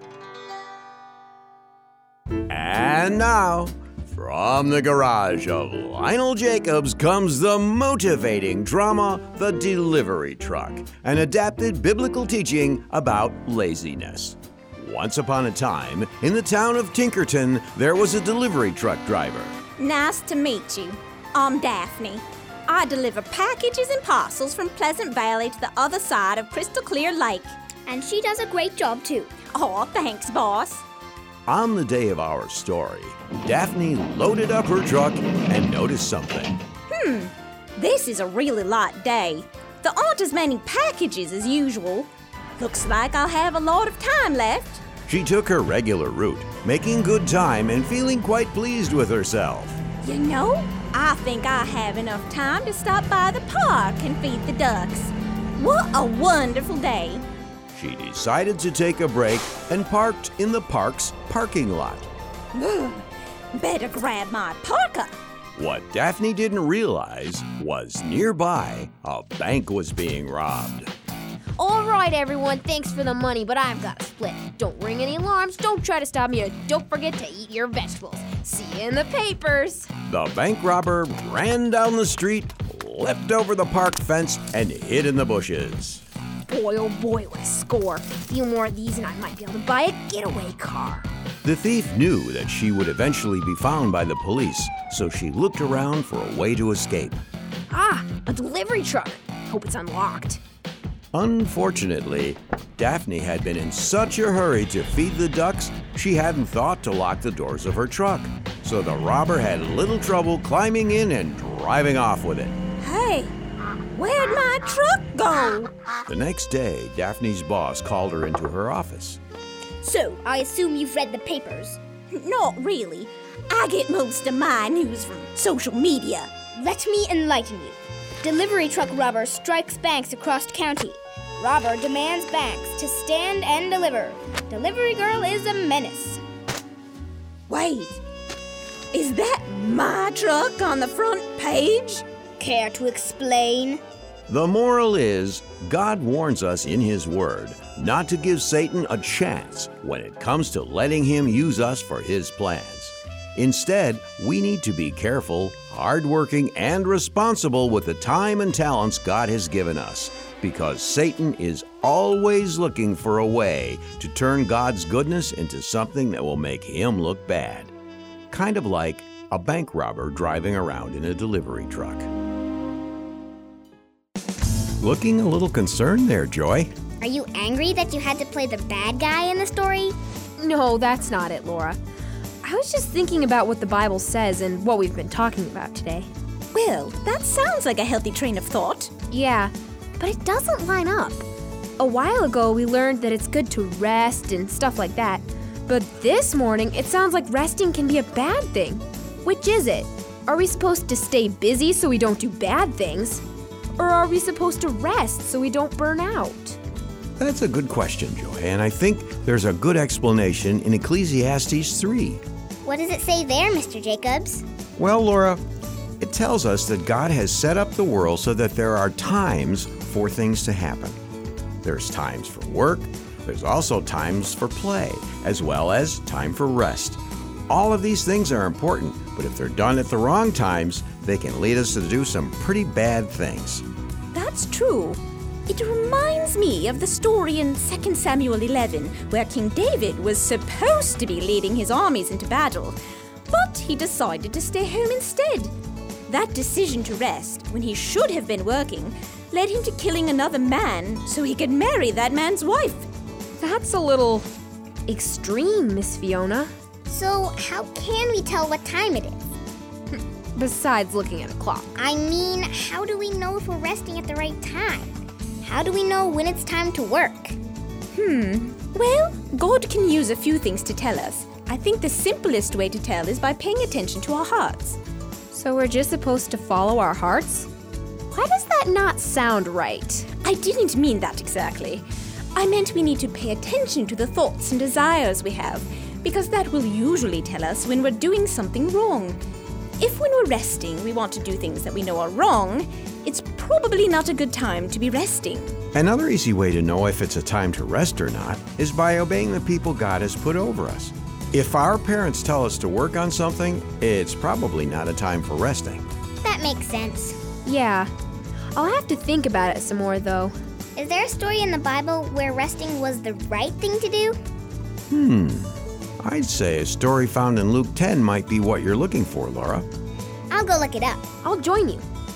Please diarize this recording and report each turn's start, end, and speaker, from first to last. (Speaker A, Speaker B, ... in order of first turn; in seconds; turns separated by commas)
Speaker A: 2.5-19.6, Speaker B: 19.8-27.5, Speaker C: 27.9-29.4, Speaker B: 29.5-30.8, Speaker A: 31.5-36.6, Speaker B: 36.9-44.8, Speaker A: 45.1-49.8, Speaker B: 50.0-57.2, Speaker A: 57.7-62.1, Speaker B: 62.5-65.2, Speaker A: 65.6-70.9, Speaker D: 71.6-79.9, Speaker A: 80.1-86.0, Speaker D: 86.5-91.1, Speaker A: 91.4-97.2, Speaker D: 97.7-100.4, Speaker A: 101.1-112.6, Speaker B: 112.8-113.3, Speaker B: 113.9-115.7, Speaker A: 116.1-119.2, Speaker C: 119.8-121.8, Speaker B: 122.1-126.3, Speaker C: 126.5-136.2, Speaker B: 137.5-138.0, Speaker B: 138.9-142.1, Speaker C: 142.4-143.8, Speaker A: 144.3-167.7, Speaker A: 168.3-172.1, Speaker A: 174.8-176.7, Speaker C: 177.0-179.9, Speaker D: 180.4-181.8, Speaker D: 182.4-186.1, Speaker B: 186.5-188.9, Speaker D: 189.1-191.2, Speaker D: 191.8-203.2, Speaker D: 203.8-206.6, Speaker A: 207.2-212.2, Speaker C: 212.7-214.4, Speaker A: 214.8-215.4, Speaker A: 216.0-221.0, Speaker A: 221.6-233.7, Speaker B: 234.1-242.8, Speaker B: 243.3-245.5, Speaker B: 246.1-252.9, Speaker D: 253.4-254.3, Speaker D: 254.9-256.5, Speaker C: 256.9-259.2, Speaker D: 259.9-261.7, Speaker C: 261.8-267.4, Speaker B: 267.9-274.8, Speaker D: 275.3-277.5, Speaker D: 278.1-280.1, Speaker B: 280.2-289.2, Speaker B: 289.8-295.6, Speaker A: 295.7-305.9, Speaker C: 306.2-307.2, Speaker D: 307.4-307.9, Speaker D: 308.6-310.3, Speaker C: 310.8-314.2, Speaker A: 314.9-319.7, Speaker C: 320.3-321.1, Speaker D: 321.2-321.8